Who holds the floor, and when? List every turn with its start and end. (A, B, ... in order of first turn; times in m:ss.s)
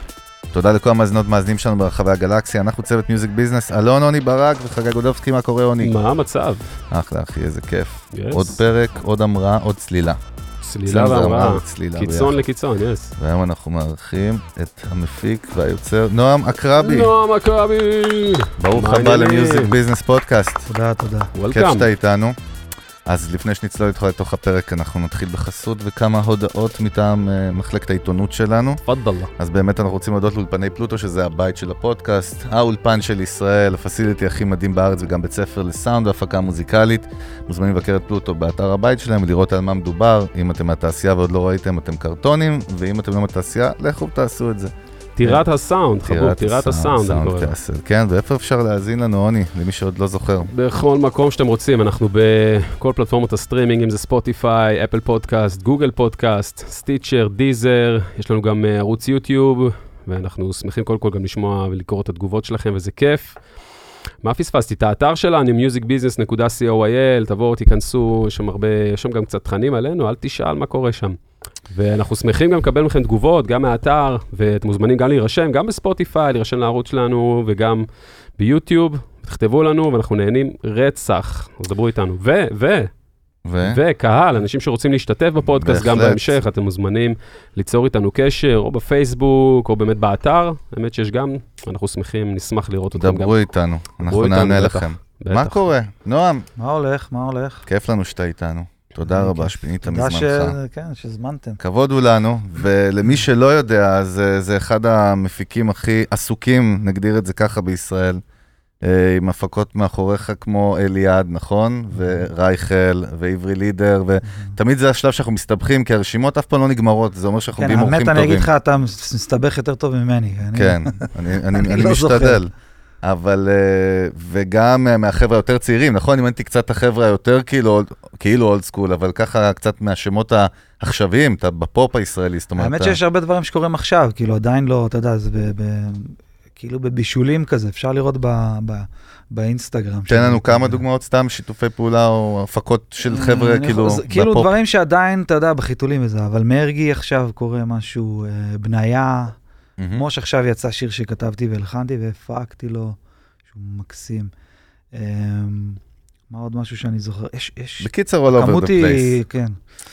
0:00.5-0:06.0 A
0:05.8-0:06.7 B
0:06.9-0:10.2 A
0:08.1-0:08.5 B
0:10.6-0:13.1 B
0:10.8-0:12.4 A
0:13.2-0:17.1 A
0:16.8-0:19.8 B
0:18.6-0:20.7 A
0:20.7-0:21.3 C
0:21.3-0:21.9 B
0:21.5-0:22.4 A
0:23.0-0:28.8 A
0:28.9-0:29.3 B
0:29.4-0:45.4 A
0:45.2-0:47.5 B
0:46.0-0:50.5 A
0:50.5-1:03.4 B
1:04.2-1:11.2 B
1:11.7-1:17.8 B
1:18.4-1:22.9 B
1:23.4-1:23.8 A
1:23.6-1:33.4 B
1:25.4-1:26.4 A
1:32.9-1:36.5 A
1:34.0-1:35.6 B
1:36.6-1:37.7 C
1:37.7-1:40.6 A
1:39.0-1:41.6 C
1:41.6-1:48.2 A
1:48.8-1:58.5 A
1:52.0-1:52.2 C
1:54.3-1:54.6 C
1:57.6-2:02.4 C
2:00.5-2:02.5 A
2:03.0-2:13.0 A
2:12.6-2:20.8 C
2:20.1-2:24.5 A
2:23.1-2:29.4 C
2:29.8-2:30.0 A
2:29.9-2:33.0 C
2:33.5-2:34.3 C
2:34.9-2:39.6 C
2:37.8-2:39.2 A